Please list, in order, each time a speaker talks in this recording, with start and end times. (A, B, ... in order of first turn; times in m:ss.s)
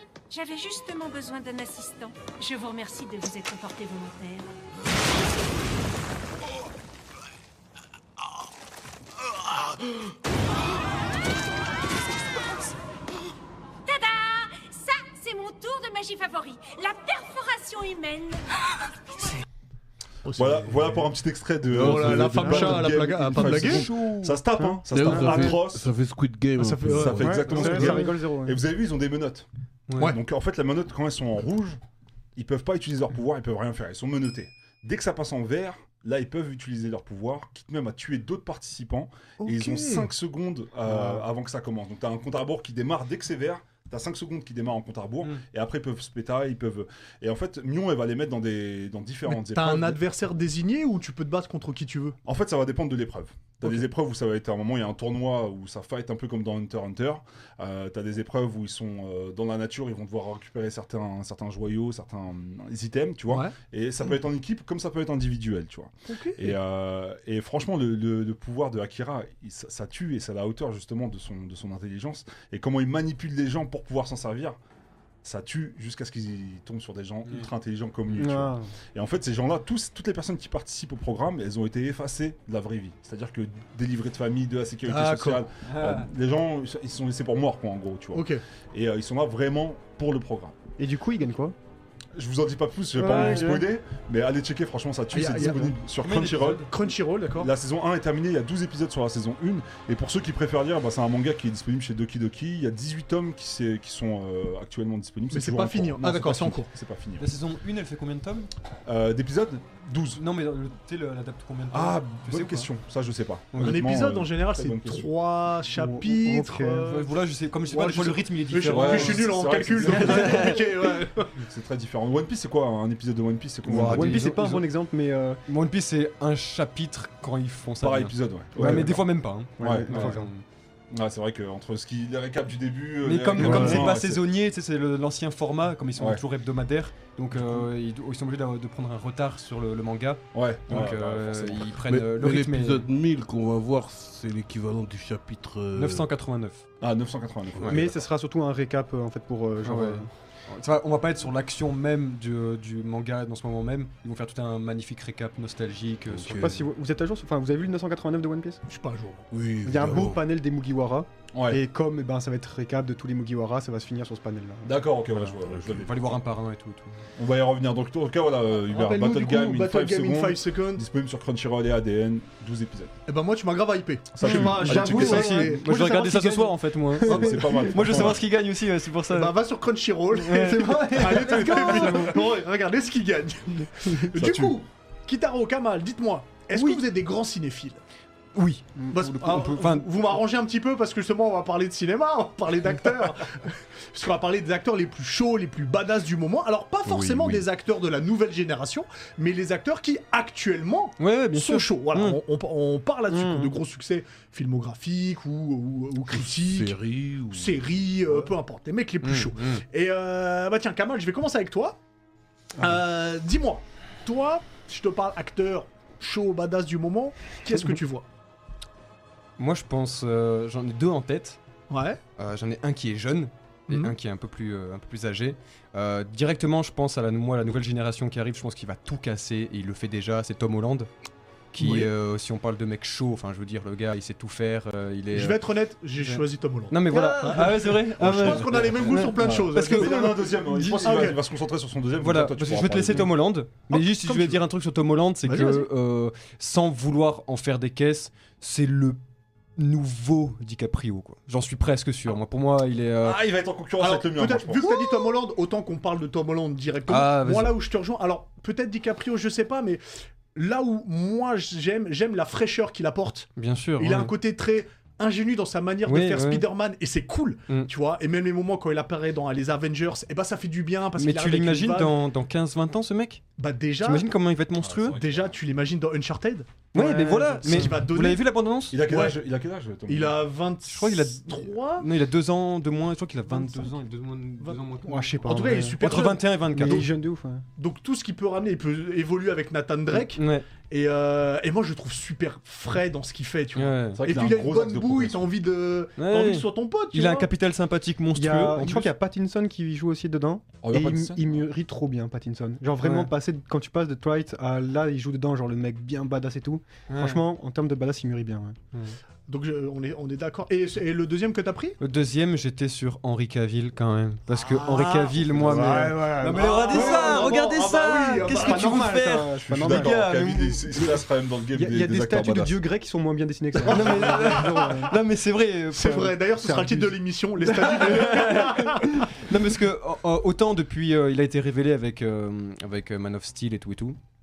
0:00.3-0:04.5 A
0:13.8-0:18.5 A
0:20.2-0:21.1 B
0:20.3-0:25.9 C
0:21.7-0:22.9 D
0:21.7-0:23.9 B
0:23.4-0:24.4 E
0:24.8-0:27.6 D
0:25.0-0:25.6 F
0:26.6-0:28.1 B
0:26.9-0:29.4 C
0:27.2-0:28.6 F
0:29.9-0:30.1 E
0:30.0-0:31.8 C
0:32.4-0:50.0 C
0:39.4-0:40.1 B
0:40.9-0:41.2 B
0:49.3-0:52.2 B
0:52.2-1:14.6 C
1:03.3-1:03.5 B
1:06.1-1:06.5 B
1:15.2-1:30.5 C
1:18.1-1:18.7 F
1:24.9-1:25.4 B
1:25.6-1:26.1 E
1:28.1-1:28.4 B
1:30.8-1:31.5 F
1:32.1-1:47.3 C
1:33.0-1:33.7 F
1:35.1-1:37.5 B
1:35.4-1:35.7 F
1:36.0-1:36.7 E
1:45.3-1:46.7 B
1:47.2-1:48.5 E
1:48.8-1:50.2 C
1:50.2-1:52.7 E
1:51.7-1:55.1 C
1:53.5-1:53.8 E
1:53.6-2:01.3 B
1:55.8-1:56.9 F
1:56.8-1:59.2 E
1:58.7-2:00.6 C
1:59.9-2:00.6 E
2:01.3-2:04.3 C
2:03.6-2:04.7 E
2:03.6-2:05.4 F
2:05.5-2:10.4 E
2:07.8-2:09.0 C
2:08.6-2:10.3 F
2:09.6-2:10.2 C
2:10.9-2:14.2 C
2:13.0-2:22.8 E
2:13.3-2:13.9 F
2:17.3-2:17.7 C
2:20.3-2:21.8 C
2:21.8-2:26.1 D
2:25.7-2:26.6 E
2:26.8-2:28.1 C
2:27.6-2:30.1 F
2:29.6-2:36.7 E
2:36.1-2:36.5 D
2:36.4-2:38.6 F
2:38.7-2:39.3 B
2:39.3-2:40.2 D
2:39.6-2:44.9 F
2:41.3-2:41.6 C
2:44.6-2:46.2 C
2:45.6-2:46.9 E
2:47.2-2:53.0 C
2:48.6-2:50.8 B
2:53.1-2:55.9 B
2:54.1-2:55.3 C
2:54.2-2:59.4 E
2:54.2-2:57.9 F
2:57.0-2:58.2 C
2:59.1-3:07.8 B
3:00.2-3:02.1 E
3:00.3-3:02.4 F
3:04.1-3:04.6 C
3:06.5-3:06.8 E
3:08.3-3:09.9 E
3:08.9-3:31.8 B
3:16.8-3:17.4 E
3:21.0-3:22.2 E
3:23.1-3:23.5 F
3:26.1-3:28.3 D
3:29.0-3:29.6 E
3:32.6-3:38.1 B
3:39.4-3:41.4 E
3:41.7-3:42.0 B
3:42.2-3:50.9 E
3:51.5-3:55.4 E
3:51.6-3:51.9 B
3:55.1-4:01.2 B
3:56.0-3:59.9 E
3:56.9-3:57.2 F
3:58.0-4:03.1 C
4:00.6-4:01.1 E
4:02.0-4:09.0 E
4:03.7-4:04.4 B
4:05.2-4:05.7 B
4:09.6-4:13.2 E
4:13.0-4:14.8 C
4:13.8-4:19.8 B
4:16.9-4:17.5 E
4:20.3-4:32.0 B
4:23.4-4:24.1 E
4:25.8-4:26.4 E
4:31.0-4:33.2 E
4:33.4-4:34.1 B
4:33.8-4:35.0 E
4:34.6-4:35.4 C
4:34.9-4:36.6 B
4:36.7-4:38.8 E
4:36.7-4:37.7 F
4:37.4-4:39.2 B
4:38.7-4:40.3 C
4:39.9-4:41.9 B
4:40.7-4:45.2 E
4:43.3-4:43.7 B
4:44.4-4:46.9 B
4:44.8-4:45.8 F
4:45.8-4:46.9 E
4:46.5-4:47.4 F
4:47.6-4:57.3 B
4:50.1-4:50.5 E
4:53.5-4:54.0 E
4:54.0-4:55.3 C
4:56.0-4:58.9 E
4:58.1-5:08.6 F
5:00.6-5:01.4 C
5:02.8-5:03.1 E
5:06.9-5:07.2 E
5:09.3-5:11.8 B
5:11.8-5:20.5 E
5:14.3-5:18.9 B
5:15.4-5:17.3 F
5:18.2-5:20.9 F
5:19.4-5:22.6 C
5:21.5-5:25.0 F
5:23.6-5:26.2 E
5:23.7-5:24.8 B
5:25.7-5:29.0 B
5:26.4-5:27.0 F
5:27.6-5:34.0 E